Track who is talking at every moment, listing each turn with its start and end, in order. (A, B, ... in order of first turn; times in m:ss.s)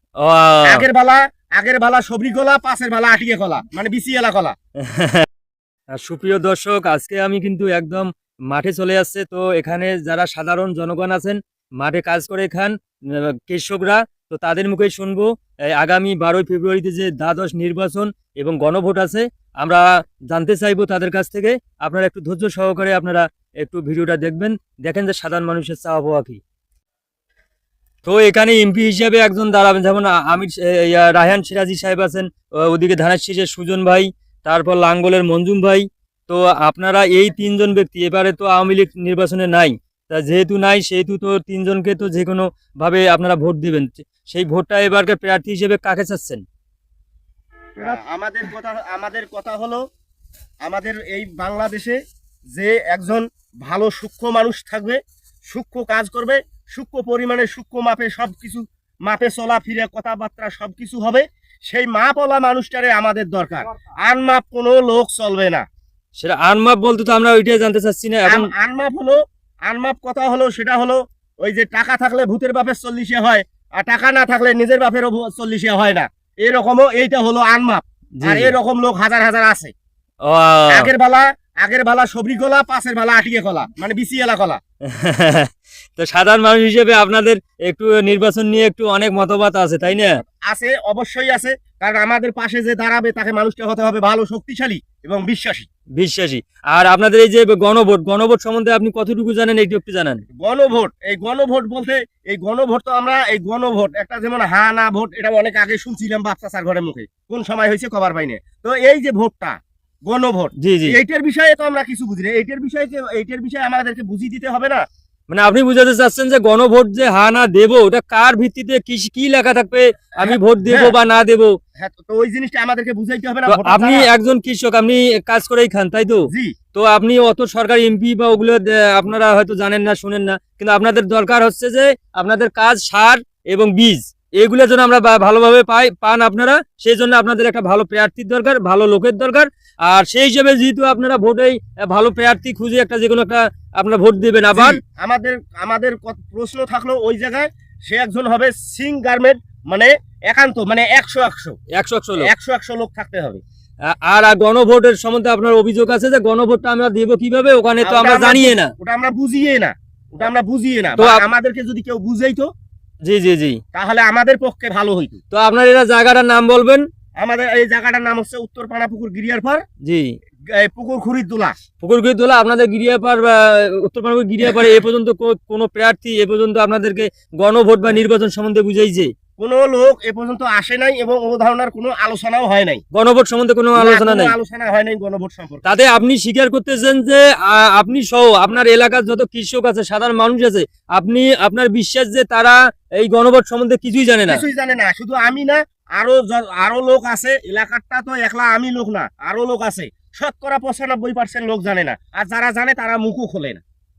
0:00.2-0:00.8 A
0:00.6-0:04.6 B
0:04.8-0:05.3 A
0:06.0-0:26.4 A
0:28.0-0:46.4 A
0:47.8-0:49.8 B
0:50.6-0:52.0 B
0:52.5-1:05.6 B
1:06.2-1:08.5 A
1:08.3-1:19.7 B
1:18.2-1:18.5 A
1:20.3-1:20.9 A
1:20.7-1:24.6 B
1:24.9-1:30.1 A
1:30.5-1:35.7 B
1:36.0-1:40.2 A
1:40.4-1:54.8 B
1:50.6-1:51.0 A
1:55.3-2:01.6 A
2:00.2-2:00.9 B
2:01.8-2:04.1 B
2:03.5-2:24.8 A
2:06.3-2:06.6 B
2:24.5-2:31.6 B
2:31.8-2:32.3 A
2:32.2-2:33.4 B
2:33.9-2:38.7 A
2:37.8-2:42.5 B
2:41.0-2:41.2 A
2:43.0-2:43.6 A
2:43.7-2:45.2 B
2:45.3-2:46.8 A
2:47.2-2:49.6 B
2:49.8-2:50.2 A
2:50.6-2:51.6 B
2:51.8-2:59.1 A
2:59.4-3:02.8 B
3:02.9-3:04.4 A
3:03.8-3:05.7 B
3:05.6-3:14.4 A
3:14.2-3:23.6 B